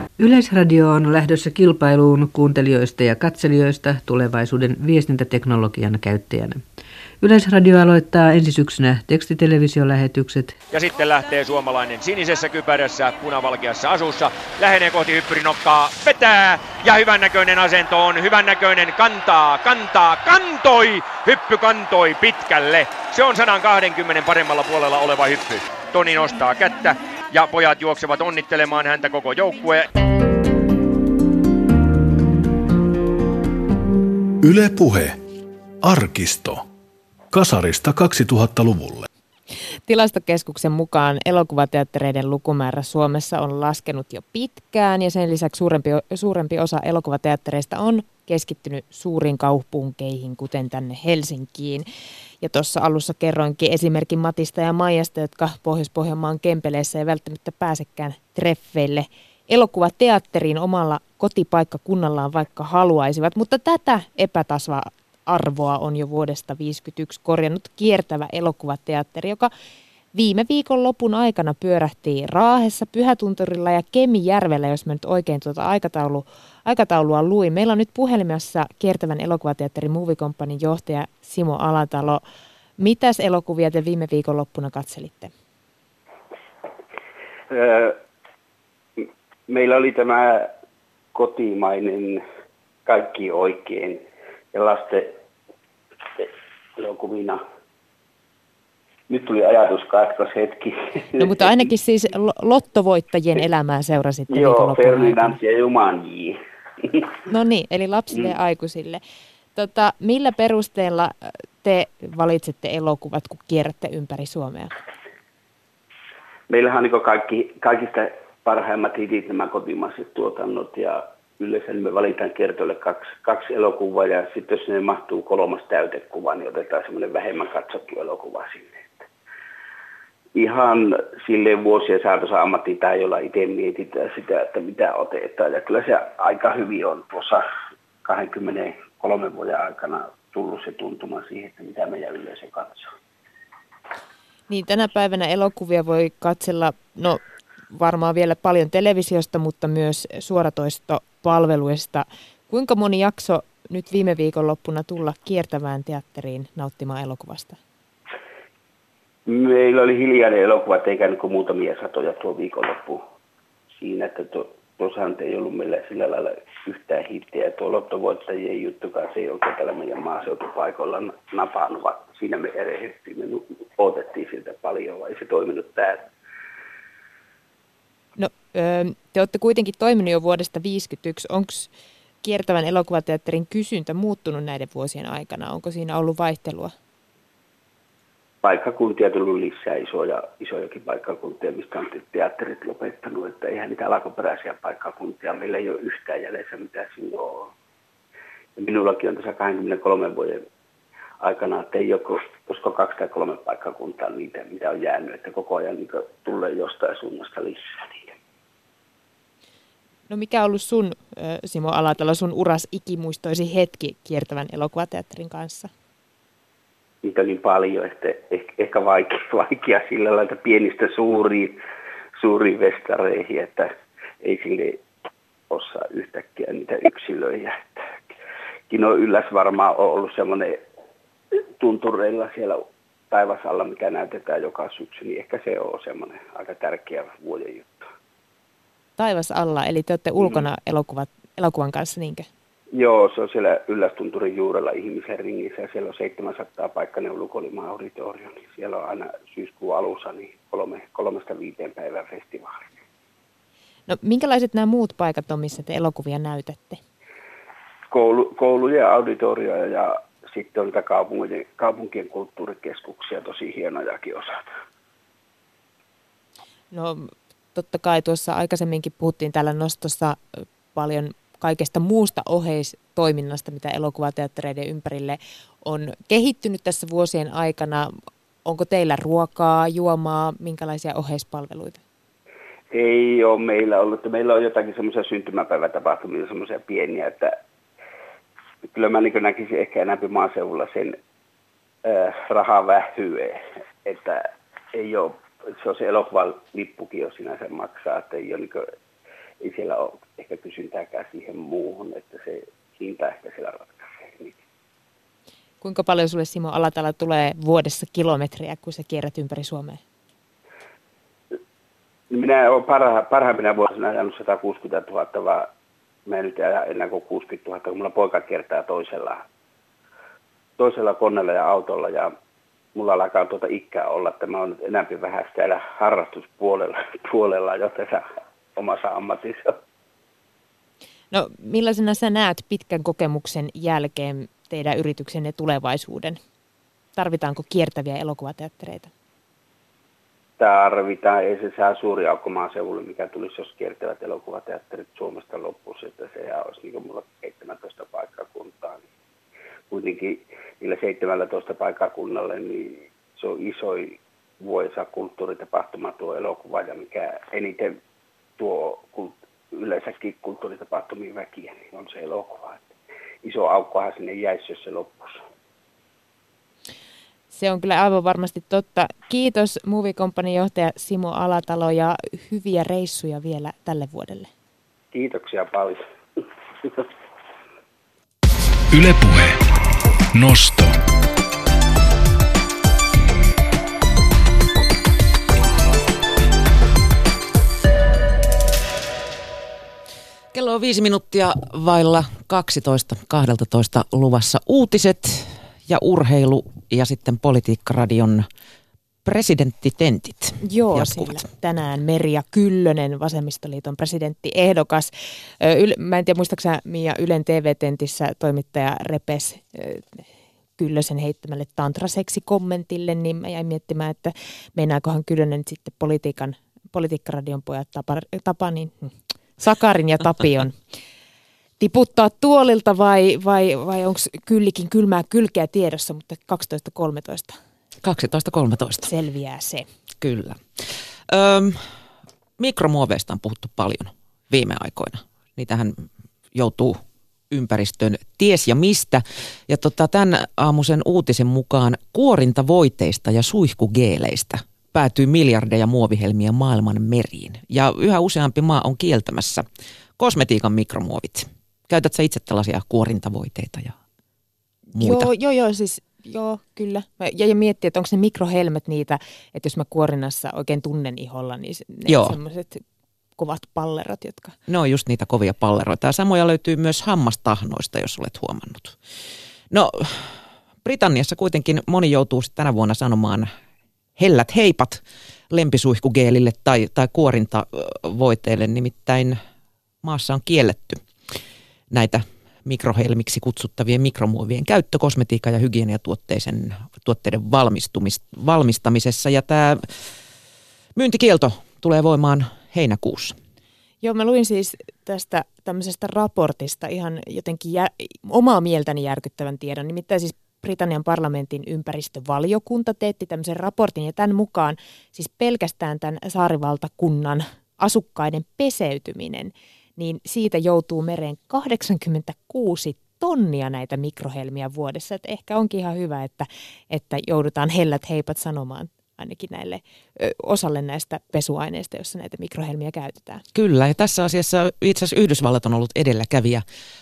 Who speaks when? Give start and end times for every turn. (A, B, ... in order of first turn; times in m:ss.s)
0:00.2-0:06.6 A
0:07.2-0:10.6 A
0:10.7-0:29.9 B
0:34.4-0:35.2 C
0:35.8-0:36.6 C
0:37.3-0:39.1 C
0:39.9-0:51.8 D
0:52.4-1:09.5 D
1:10.1-1:22.2 D
1:22.8-1:25.3 D
1:27.5-1:28.0 E
1:29.0-1:30.5 E
1:31.1-1:32.2 E
1:32.8-1:35.2 E
1:36.2-1:37.4 E
1:39.1-1:41.5 E
1:41.2-1:45.4 D
1:44.3-1:47.0 E
1:47.3-1:49.0 D
1:49.5-1:54.7 D
1:56.5-2:09.0 E
2:10.3-2:17.4 E
2:18.0-2:22.9 E
2:24.5-2:27.2 D
2:27.7-2:37.6 D
2:39.3-2:43.0 E
2:43.8-2:56.1 E
2:58.2-3:01.7 D
3:02.2-3:06.7 D
3:08.4-3:17.5 E
3:18.6-3:20.4 E
3:21.2-3:28.1 E
3:30.1-3:35.7 D
3:37.0-3:41.6 E
3:42.2-3:44.8 E
3:45.5-3:47.8 E
3:48.7-3:50.6 E
3:51.6-3:57.8 E
3:59.0-4:02.3 D
4:02.7-4:12.6 E
4:13.9-4:16.8 D
4:17.9-4:24.4 E
4:26.7-4:37.9 D
4:38.4-4:41.8 D
4:42.7-4:47.4 E
4:48.7-4:51.0 E
4:51.8-4:58.6 E
4:59.4-5:04.3 E
5:05.6-5:09.8 D
5:12.1-5:15.5 E
5:16.1-5:19.2 E
5:20.6-5:22.1 E
5:22.7-5:28.0 E
5:28.6-5:29.6 E
5:31.1-5:36.2 D
5:37.0-5:38.9 D
5:40.4-5:48.8 E
5:49.7-5:57.8 E
5:58.4-6:02.7 E
6:03.2-6:05.2 E
6:07.3-6:14.3 D
6:14.9-6:16.8 E
6:18.7-6:19.4 C
6:20.1-6:20.8 C
6:30.3-6:38.3 F
6:39.0-6:41.2 F
6:40.4-6:50.0 D
6:50.6-7:00.6 D
7:01.6-7:07.4 D
7:07.8-7:08.9 F
7:08.8-7:09.6 D
7:10.0-7:11.6 F
7:12.4-7:16.8 F
7:17.3-7:29.4 F
7:30.0-7:33.8 F
7:34.7-7:35.1 F
7:34.7-7:42.6 D
7:41.9-7:42.2 F
7:43.2-7:44.3 D
7:44.5-7:48.8 F
7:49.5-7:53.3 F
7:54.0-7:59.2 F
7:59.8-8:00.8 F
8:01.7-8:09.7 F
8:10.8-8:13.2 F
8:13.8-8:43.2 D
8:43.3-8:46.4 F